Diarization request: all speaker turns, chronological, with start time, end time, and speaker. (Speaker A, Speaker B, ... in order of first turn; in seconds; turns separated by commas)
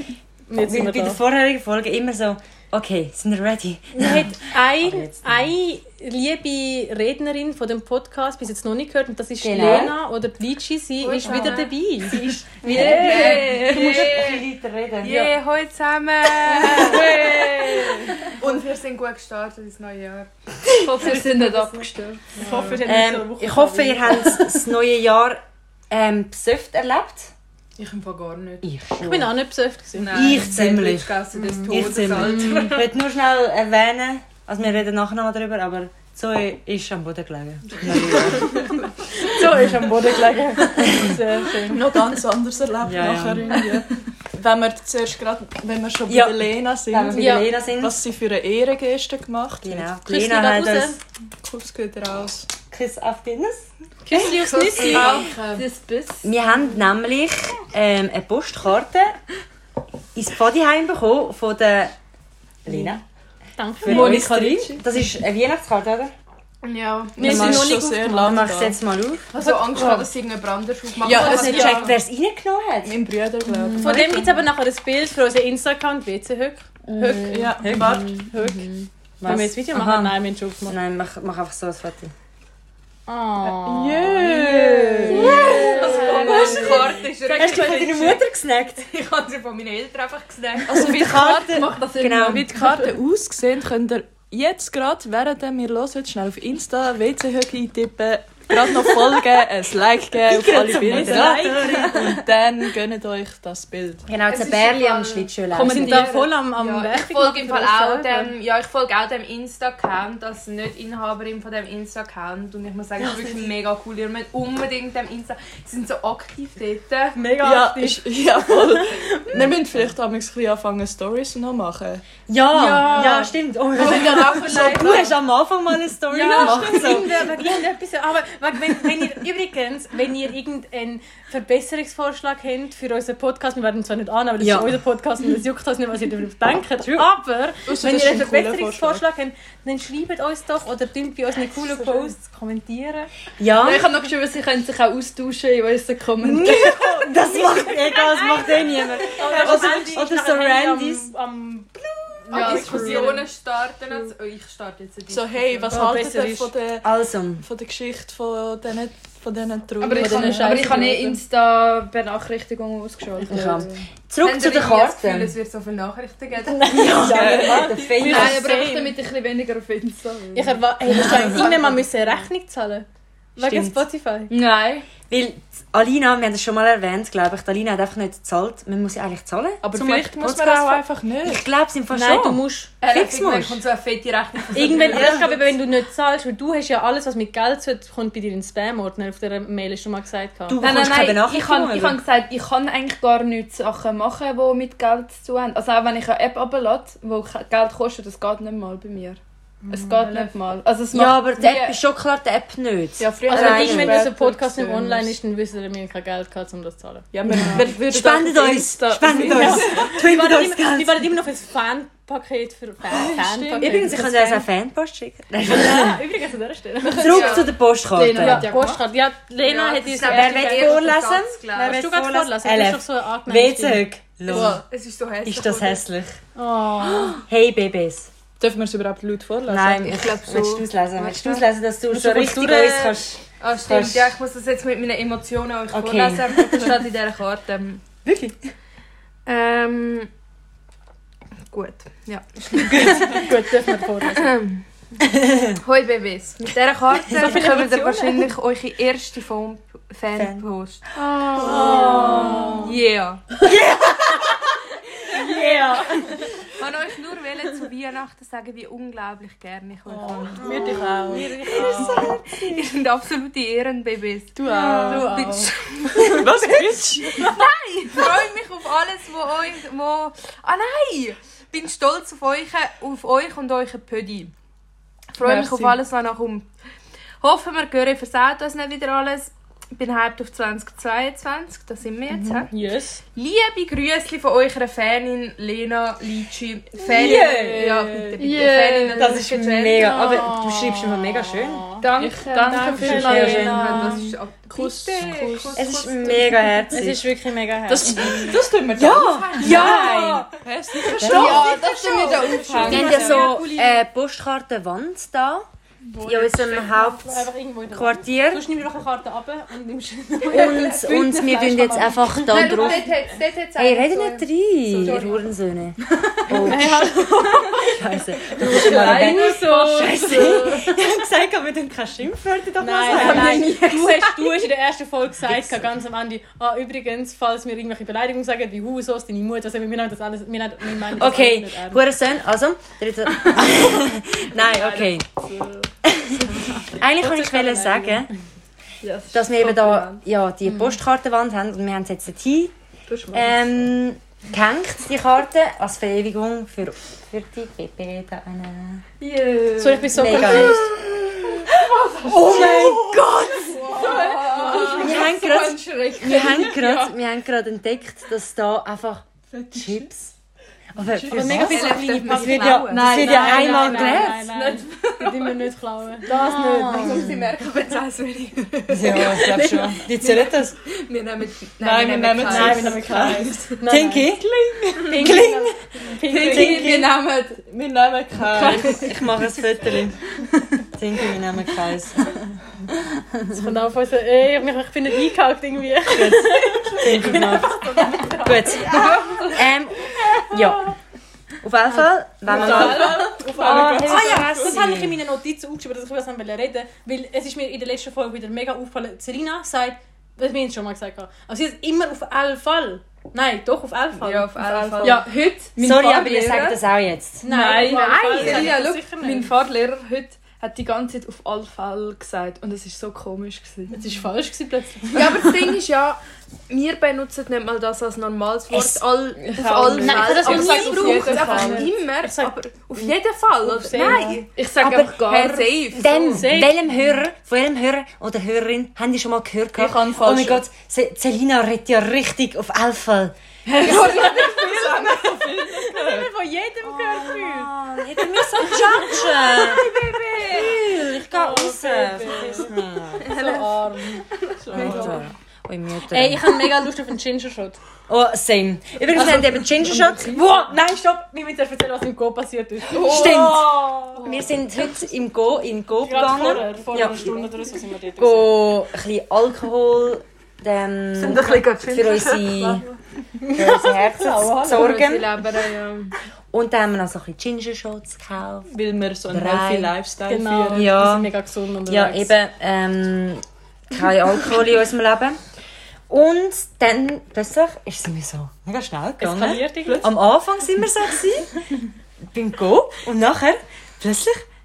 Speaker A: 0.5-1.2, Speaker B: 0.6-5.4, Speaker A: 3.9-13.4, Speaker B: 9.4-9.9, Speaker C: 11.0-11.7, Speaker D: 11.2-11.5, Speaker C: 12.6-14.4, Speaker B: 12.6-15.3, Speaker C: 15.0-22.5, Speaker A: 16.5-17.4, Speaker D: 16.6-17.2, Speaker D: 18.4-18.7, Speaker E: 21.0-22.2, Speaker A: 22.3-24.6, Speaker D: 22.4-22.8, Speaker B: 22.8-27.3, Speaker C: 27.8-28.6, Speaker B: 28.6-29.3, Speaker A: 29.0-30.3, Speaker C: 30.0-32.9, Speaker B: 30.1-38.7, Speaker A: 31.3-32.8, Speaker A: 38.2-41.9, Speaker B: 40.8-41.2, Speaker D: 41.6-49.9, Speaker B: 42.8-43.6, Speaker B: 46.1-48.0, Speaker A: 47.1-47.5, Speaker B: 49.6-51.0, Speaker A: 50.1-51.0, Speaker D: 51.4-52.5, Speaker B: 52.7-55.2, Speaker A: 54.0-55.2, Speaker C: 54.2-56.2, Speaker D: 54.9-55.6, Speaker E: 55.6-56.2, Speaker B: 56.2-59.2, Speaker B: 60.1-61.9, Speaker B: 62.6-63.0, Speaker A: 63.6-64.5, Speaker B: 63.8-66.1, Speaker C: 63.9-64.7, Speaker D: 63.9-64.3, Speaker C: 66.6-67.1, Speaker D: 67.1-68.8, Speaker A: 67.1-68.5, Speaker B: 67.2-69.3, Speaker C: 69.3-71.9, Speaker D: 71.0-71.8, Speaker B: 71.1-72.9, Speaker A: 71.2-72.0, Speaker D: 72.8-74.3, Speaker B: 73.5-74.2, Speaker A: 73.8-80.8, Speaker B: 76.9-78.2, Speaker D: 77.3-78.2, Speaker B: 79.2-80.2, Speaker B: 80.7-82.1, Speaker A: 83.1-84.3, Speaker D: 83.4-86.8, Speaker B: 84.0-88.8, Speaker A: 85.0-86.8, Speaker C: 85.3-88.2, Speaker C: 88.8-92.7, Speaker D: 90.7-91.3, Speaker B: 90.8-92.6, Speaker E: 91.5-92.2, Speaker D: 92.2-104.1, Speaker B: 100.3-102.2, Speaker A: 100.4-102.2, Speaker B: 104.1-106.1, Speaker C: 104.3-117.2, Speaker A: 105.6-108.3, Speaker A: 117.1-119.5, Speaker D: 117.4-122.0, Speaker B: 122.3-127.5, Speaker A: 122.5-124.8, Speaker C: 123.8-125.1, Speaker A: 126.1-143.1, Speaker C: 126.6-127.0, Speaker B: 134.4-134.7, Speaker D: 137.7-139.0, Speaker B: 143.4-143.9, Speaker E: 143.6-146.8, Speaker B: 146.2-151.1, Speaker A: 146.5-153.3, Speaker D: 149.2-149.8, Speaker C: 152.3-155.9, Speaker E: 152.3-153.0, Speaker D: 155.1-160.7, Speaker A: 155.7-156.5, Speaker B: 156.8-157.4, Speaker C: 159.8-161.2, Speaker E: 159.8-163.8, Speaker A: 159.9-161.2, Speaker B: 163.3-165.3, Speaker C: 164.2-168.8, Speaker A: 166.4-169.0, Speaker B: 166.7-168.4, Speaker D: 167.0-167.7, Speaker E: 168.2-170.6, Speaker A: 170.3-174.3, Speaker B: 170.9-171.5, Speaker C: 171.0-171.8, Speaker B: 173.4-173.8, Speaker C: 174.3-174.7, Speaker E: 174.3-174.8, Speaker B: 175.1-183.6, Speaker D: 179.6-181.4, Speaker A: 181.9-182.7, Speaker C: 182.8-185.4, Speaker A: 184.5-190.6, Speaker B: 184.9-185.3, Speaker B: 190.5-192.0, Speaker C: 190.6-191.9, Speaker E: 191.7-199.2, Speaker E: 199.7-201.0, Speaker C: 200.0-200.3, Speaker D: 200.0-200.3, Speaker C: 200.9-201.8, Speaker B: 200.9-204.0, Speaker D: 203.0-205.1, Speaker A: 203.2-207.8, Speaker D: 207.1-209.9, Speaker B: 207.3-211.1, Speaker A: 209.1-214.4, Speaker D: 212.9-214.0, Speaker B: 213.6-216.0, Speaker A: 215.5-217.5, Speaker C: 216.9-218.8, Speaker B: 216.9-218.5, Speaker A: 218.0-220.8, Speaker E: 218.2-218.5, Speaker C: 219.4-221.8, Speaker B: 220.0-224.6, Speaker A: 221.6-223.9, Speaker C: 224.2-225.8, Speaker B: 225.2-226.2, Speaker A: 226.3-227.2, Speaker B: 227.0-228.1, Speaker D: 228.4-230.1, Speaker B: 229.5-234.1, Speaker C: 229.8-231.4, Speaker C: 231.9-237.8, Speaker B: 235.7-236.7, Speaker B: 238.1-238.3, Speaker C: 239.2-240.1, Speaker C: 241.5-243.2, Speaker B: 242.7-243.2, Speaker A: 242.8-244.3, Speaker C: 244.1-244.6, Speaker B: 245.1-245.5, Speaker C: 245.6-253.3, Speaker B: 247.1-247.4, Speaker A: 247.1-248.3, Speaker B: 250.1-250.4, Speaker B: 251.0-252.6, Speaker A: 251.3-252.8, Speaker D: 251.4-252.6, Speaker B: 253.4-254.5, Speaker B: 255.1-256.1, Speaker A: 255.1-256.2, Speaker C: 256.6-266.6, Speaker D: 259.9-262.1, Speaker A: 260.4-262.5, Speaker B: 261.6-262.1, Speaker D: 264.4-265.1, Speaker A: 264.5-265.5, Speaker B: 264.6-265.0, Speaker D: 265.9-267.3, Speaker C: 267.1-274.3, Speaker C: 275.1-276.5, Speaker D: 275.2-275.8, Speaker C: 277.2-282.5, Speaker A: 282.5-283.0, Speaker C: 283.1-290.2, Speaker D: 286.8-288.9, Speaker B: 286.9-287.7, Speaker E: 288.2-289.1, Speaker B: 288.9-291.7, Speaker A: 289.7-294.1, Speaker C: 291.8-296.6, Speaker B: 292.7-293.9, Speaker D: 293.7-296.2, Speaker B: 295.5-297.0, Speaker A: 296.7-298.3, Speaker D: 297.7-303.2, Speaker B: 298.7-300.3, Speaker C: 298.9-300.3, Speaker A: 299.4-300.3, Speaker C: 300.8-303.3, Speaker B: 301.0-301.5, Speaker A: 301.1-303.8, Speaker B: 302.6-305.4, Speaker A: 305.8-310.9, Speaker B: 306.0-308.4, Speaker B: 310.3-312.9, Speaker C: 310.3-315.3, Speaker A: 312.0-312.7, Speaker B: 313.6-317.0, Speaker A: 316.3-317.8, Speaker C: 317.1-317.7, Speaker B: 317.6-323.6, Speaker C: 318.4-320.9, Speaker A: 318.7-319.1, Speaker A: 322.6-331.8, Speaker C: 322.8-324.4, Speaker B: 325.2-325.7, Speaker B: 330.9-335.1, Speaker B: 335.8-338.1, Speaker A: 336.6-338.1, Speaker E: 338.8-340.0, Speaker B: 339.1-342.5, Speaker B: 343.1-348.8, Speaker E: 349.0-349.8, Speaker C: 349.0-350.6, Speaker A: 349.6-350.7, Speaker B: 349.9-351.4, Speaker C: 351.6-356.9, Speaker D: 351.9-355.3, Speaker B: 352.0-353.0, Speaker A: 354.5-354.9, Speaker B: 354.8-360.1, Speaker D: 359.3-359.9, Speaker B: 360.7-364.2, Speaker D: 360.8-361.6, Speaker A: 361.1-367.2, Speaker C: 361.4-365.4, Speaker C: 366.2-372.8, Speaker B: 366.5-367.1, Speaker B: 368.7-370.6, Speaker A: 368.9-369.9, Speaker D: 371.6-375.2, Speaker B: 372.2-374.3, Speaker A: 372.3-374.1, Speaker A: 374.8-376.9, Speaker B: 374.8-375.6, Speaker C: 376.0-377.4, Speaker B: 376.1-376.9, Speaker D: 376.2-379.0, Speaker C: 378.3-378.9, Speaker B: 378.4-380.0, Speaker B: 380.7-382.1, Speaker A: 383.3-388.9, Speaker B: 385.9-390.7, Speaker D: 386.7-388.1, Speaker C: 388.6-389.4, Speaker B: 391.4-395.0, Speaker D: 392.2-394.7, Speaker A: 392.3-405.0, Speaker C: 403.9-406.6, Speaker D: 404.4-405.0, Speaker B: 405.6-407.2, Speaker E: 405.7-406.3, Speaker C: 407.2-409.2, Speaker A: 407.2-409.3, Speaker B: 407.7-408.4, Speaker E: 408.1-413.7, Speaker C: 410.1-410.4, Speaker A: 413.7-415.5, Speaker C: 414.9-426.4, Speaker B: 418.5-418.8, Speaker D: 419.4-421.7, Speaker A: 419.8-424.2, Speaker B: 423.8-425.0, Speaker E: 424.3-425.5, Speaker B: 425.7-433.1, Speaker A: 425.8-426.6, Speaker D: 429.6-430.4, Speaker D: 433.5-436.1, Speaker C: 433.5-435.3, Speaker A: 433.7-434.1, Speaker A: 435.4-444.9, Speaker B: 436.6-439.6, Speaker C: 439.3-440.5, Speaker B: 440.2-443.1, Speaker C: 443.0-443.5, Speaker D: 444.4-445.1, Speaker B: 444.5-446.5, Speaker A: 445.9-447.6, Speaker B: 447.9-450.5, Speaker A: 448.9-454.0, Speaker C: 452.7-454.7, Speaker B: 452.8-457.2, Speaker A: 455.8-458.5, Speaker D: 456.1-456.4, Speaker B: 458.0-462.6, Speaker D: 460.9-462.8, Speaker A: 463.2-464.8, Speaker B: 463.3-465.2, Speaker C: 464.5-465.9, Speaker B: 466.3-468.5, Speaker D: 468.5-470.8, Speaker B: 469.1-469.7, Speaker A: 470.1-472.1, Speaker B: 470.5-471.1, Speaker B: 471.6-475.2, Speaker B: 475.9-481.4, Speaker A: 479.0-479.9, Speaker D: 479.6-480.0, Speaker B: 482.0-484.2